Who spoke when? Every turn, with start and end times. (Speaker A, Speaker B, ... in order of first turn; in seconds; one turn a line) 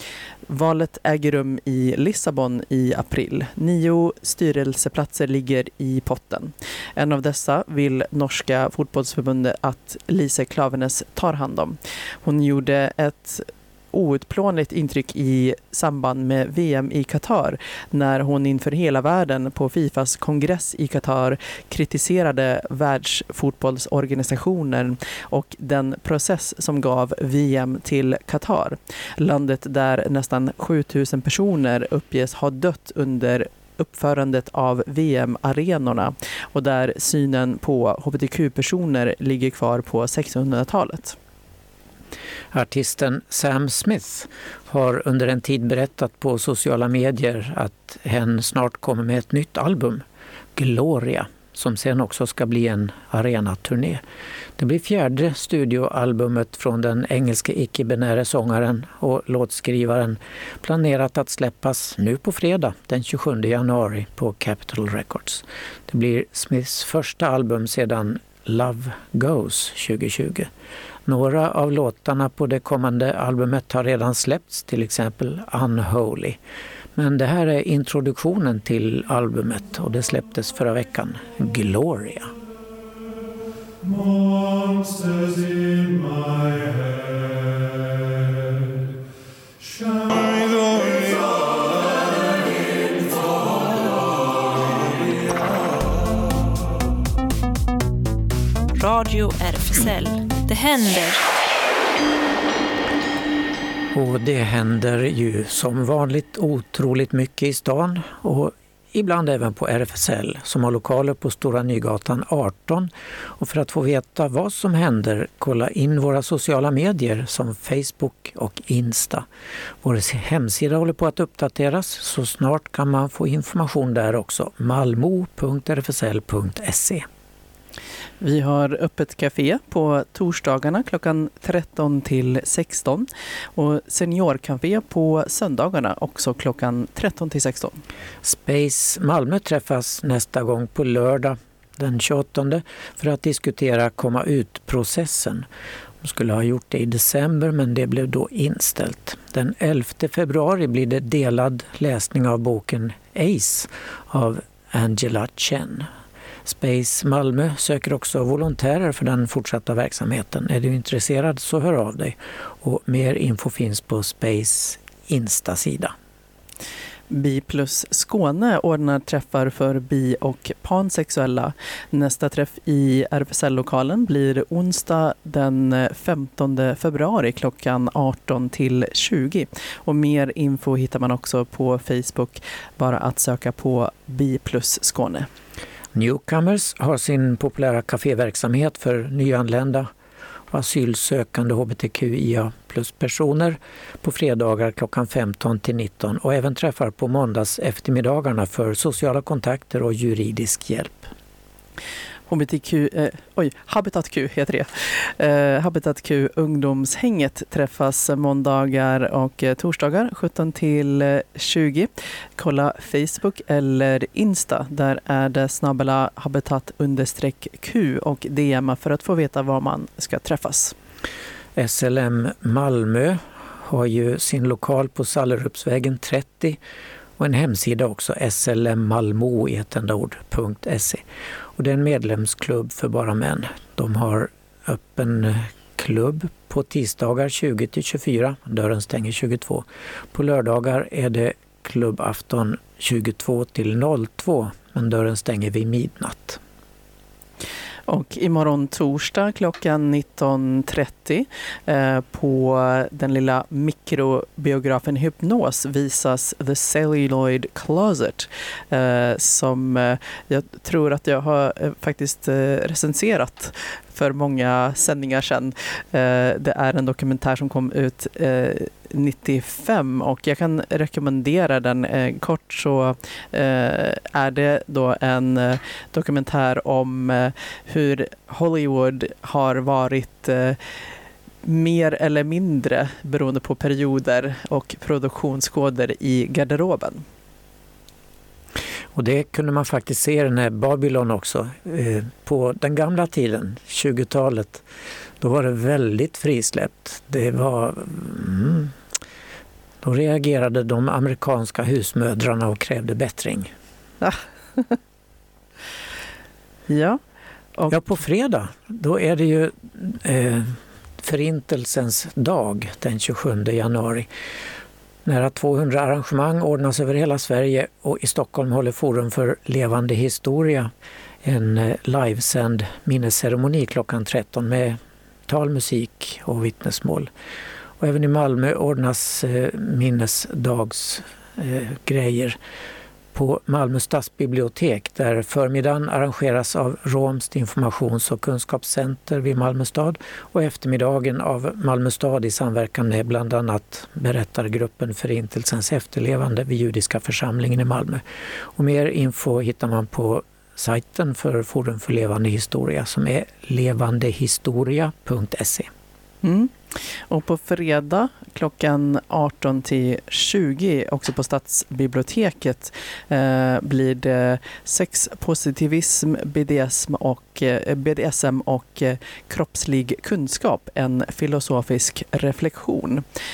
Speaker A: 0.5-41.2
Speaker B: 42.5-50.0
Speaker B: 50.6-54.0
Speaker B: 54.6-70.5
Speaker B: 71.1-76.4
Speaker B: 77.0-82.3
Speaker C: 98.8-101.2
Speaker B: 103.9-119.3
Speaker B: 119.8-127.1
Speaker A: 128.2-137.8
Speaker B: 138.2-145.5
Speaker B: 146.0-155.9
Speaker B: 156.4-165.9
Speaker A: 167.1-185.3
Speaker B: 185.9-189.9
Speaker B: 190.5-201.1
Speaker A: 202.3-220.8
Speaker B: 221.6-226.6
Speaker B: 227.2-231.0
Speaker B: 231.6-246.4
Speaker A: 247.9-280.6
Speaker A: 281.4-287.0
Speaker B: 288.9-294.6
Speaker B: 295.2-298.8
Speaker B: 299.8-303.5
Speaker A: 304.0-304.8
Speaker A: 306.7-307.0
Speaker B: 307.7-314.1
Speaker B: 315.1-320.7
Speaker B: 321.2-327.1
Speaker B: 327.8-332.4
Speaker B: 333.1-348.0
Speaker B: 348.6-355.7
Speaker A: 356.2-373.0